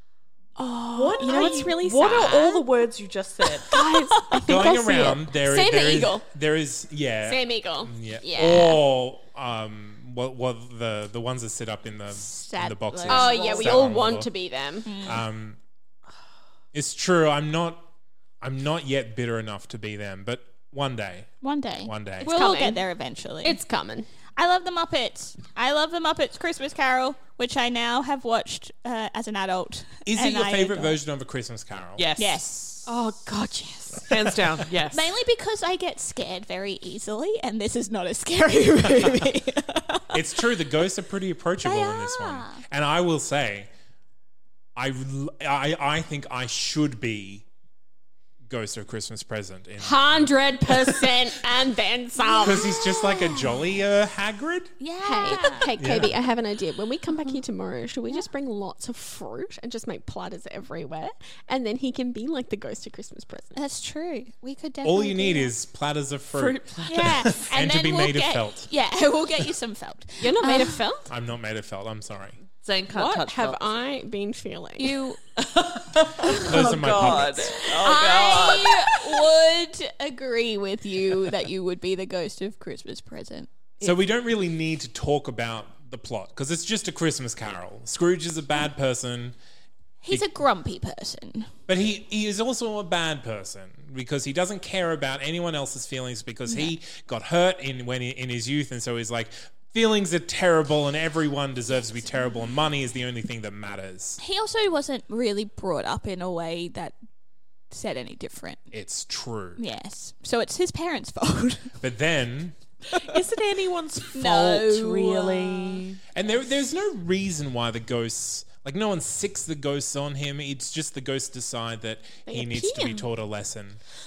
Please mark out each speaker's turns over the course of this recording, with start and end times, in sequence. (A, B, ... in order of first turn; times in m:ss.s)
0:00.6-0:02.7 A
0:00.9-0:03.7 B
0:01.2-0:02.6 C
0:03.7-0:06.2 A
0:03.7-0:04.4 C
0:04.4-0:14.3 D
0:07.2-0:08.8 A
0:12.1-0:13.8 C
0:13.1-0:14.9 A
0:14.8-0:15.2 C
0:15.0-0:15.6 D
0:16.7-0:17.9 D
0:18.4-0:22.4 D
0:21.4-0:23.6 C
0:22.2-0:22.8 A
0:23.4-0:24.1 A
0:24.4-0:31.0 C
0:30.0-0:32.1 D
0:32.0-0:33.3 B
0:32.2-0:32.9 C
0:33.2-0:34.1 A
0:34.0-0:35.1 B
0:34.9-0:40.0 C
0:40.1-0:43.7 D
0:41.6-0:42.6 C
0:44.8-0:47.4 D
0:48.5-0:51.3 D
0:49.8-0:52.7 A
0:52.2-0:53.5 C
0:52.4-0:54.7 D
0:54.8-0:55.7 C
0:55.0-1:03.6 A
0:55.8-0:56.1 D
1:03.6-1:05.5 C
1:04.8-1:08.7 D
1:06.3-1:07.4 B
1:06.9-1:10.8 C
1:10.2-1:11.1 A
1:11.1-1:12.4 D
1:12.6-1:13.6 B
1:12.9-1:14.9 A
1:14.8-1:15.2 C
1:15.4-1:19.0 B
1:16.4-1:17.5 D
1:17.8-1:23.5 C
1:17.8-1:18.7 A
1:23.8-1:29.4 D
1:30.0-1:31.5 C
1:31.7-1:44.2 D
1:36.5-1:36.7 C
1:44.2-1:47.0 C
1:47.7-1:48.6 C
1:48.7-1:49.6 D
1:49.6-1:51.8 C
1:51.8-1:52.6 D
1:53.0-1:56.0 B
1:54.1-1:55.8 C
1:56.1-2:03.8 D
2:02.3-2:03.1 A